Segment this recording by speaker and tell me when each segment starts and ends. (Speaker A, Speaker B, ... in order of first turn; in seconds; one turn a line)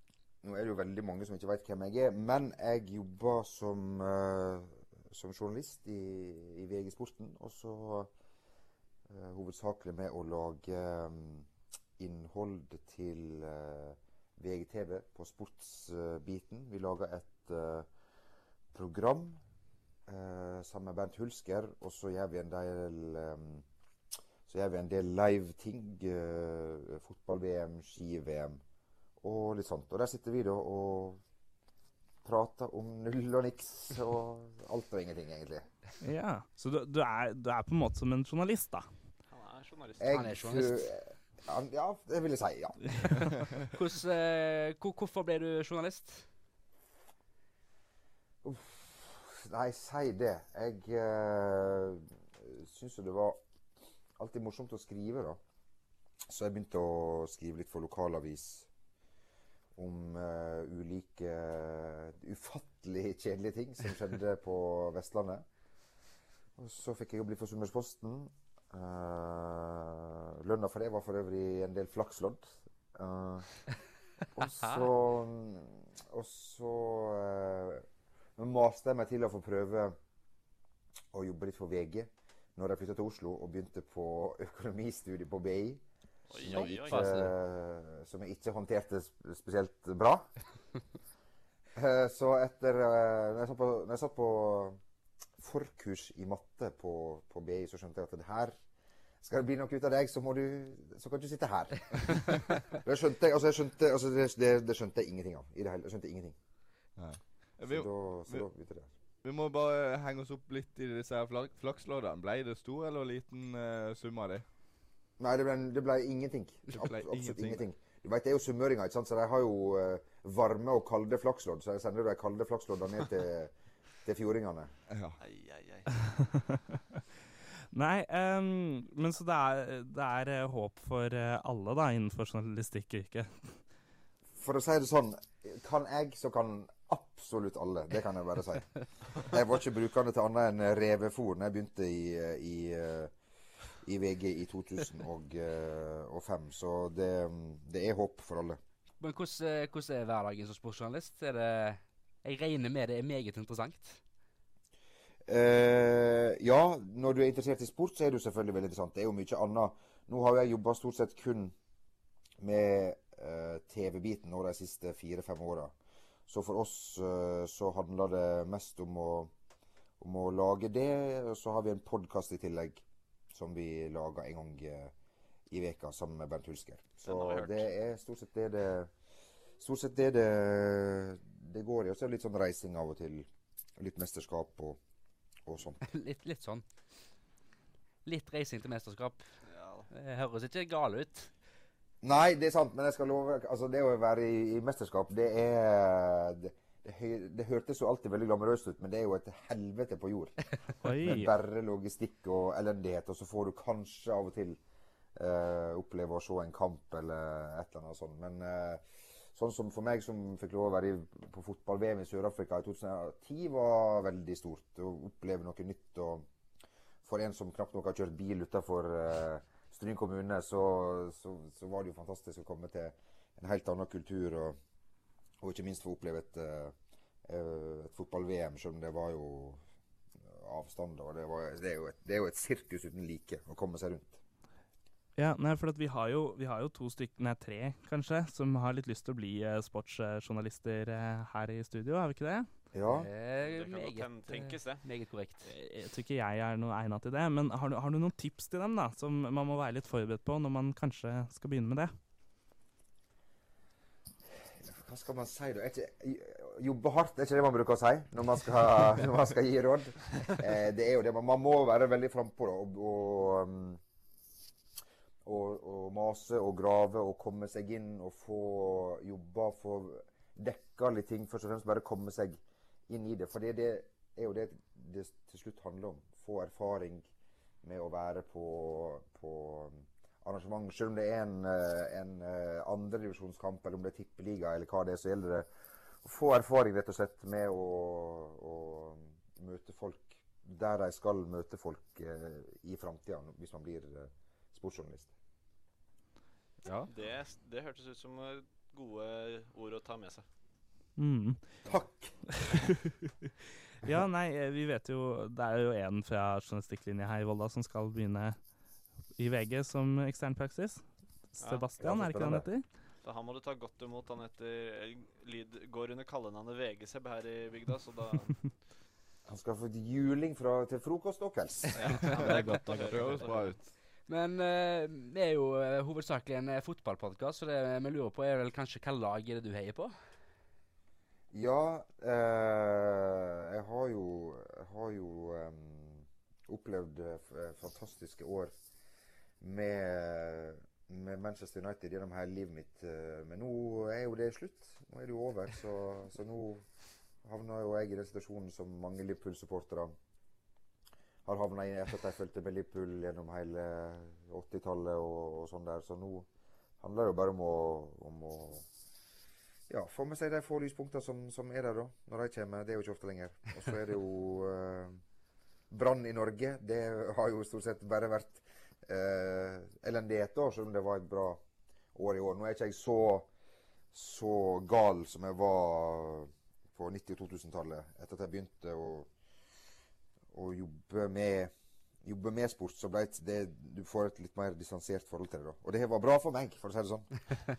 Speaker A: 0.4-8.1
Speaker A: 9.1-17.9
Speaker A: 18.7-19.4
Speaker A: 20.1-23.7
Speaker A: 24.5-28.6
Speaker A: 29.2-31.2
Speaker A: 32.2-35.7
Speaker B: 36.0-38.9
Speaker C: 39.3-40.2
Speaker A: 40.0-43.0
Speaker D: 40.1-40.9
Speaker D: 43.7-46.3
Speaker A: 48.4-53.4
Speaker A: 54.2-55.4
Speaker A: 56.3-58.7
Speaker A: 59.8-65.5
Speaker A: 66.6-73.6
Speaker A: 74.3-80.0
Speaker A: 81.1-85.8
Speaker C: 86.3-87.0
Speaker A: 86.4-90.3
Speaker D: 86.4-87.3
Speaker A: 91.8-94.8
Speaker A: 95.4-98.6
Speaker A: 99.2-106.4
Speaker E: 107.0-108.5
Speaker A: 107.6-108.9
Speaker E: 109.2-114.5
Speaker A: 115.2-123.5
Speaker E: 116.7-117.7
Speaker A: 124.0-124.7
Speaker E: 124.9-125.2
Speaker C: 125.2-125.9
Speaker B: 127.7-133.6
Speaker A: 134.3-143.1
Speaker A: 143.8-148.6
Speaker D: 149.0-154.0
Speaker A: 155.3-161.5
Speaker A: 162.4-165.7
Speaker A: 166.3-169.3
Speaker A: 170.0-174.9
Speaker A: 175.5-178.9
Speaker C: 177.1-177.7
Speaker A: 179.6-184.8
Speaker A: 185.5-185.8
Speaker D: 185.9-186.6
Speaker D: 188.1-189.3
Speaker C: 189.4-189.9
Speaker D: 189.9-191.3
Speaker A: 192.0-200.3
Speaker B: 200.8-201.3
Speaker A: 201.0-204.6
Speaker A: 205.2-216.3
Speaker A: 217.0-224.6
Speaker A: 225.4-229.6
Speaker A: 230.2-234.2
Speaker B: 235.2-242.5
Speaker A: 242.7-243.1
Speaker D: 242.9-245.5
Speaker C: 243.4-244.8
Speaker B: 245.5-251.9
Speaker A: 254.6-263.8
Speaker A: 265.2-277.1
Speaker A: 277.6-285.5
Speaker A: 286.0-295.1
Speaker C: 296.9-300.2
Speaker B: 301.0-301.5
Speaker A: 301.6-302.2
Speaker B: 303.8-308.4
Speaker B: 309.2-312.6
Speaker C: 311.4-311.7
Speaker A: 311.8-312.5
Speaker C: 313.0-318.6
Speaker A: 319.3-322.0
Speaker C: 321.7-323.6
Speaker E: 322.0-323.8
Speaker D: 324.1-329.9
Speaker A: 331.3-338.5
Speaker A: 339.4-346.7
Speaker A: 347.2-350.0
Speaker A: 351.2-356.3
Speaker A: 356.8-358.7
Speaker A: 359.7-365.0
Speaker A: 365.7-371.4
Speaker A: 371.9-373.3
Speaker A: 373.9-379.1
Speaker A: 380.3-387.1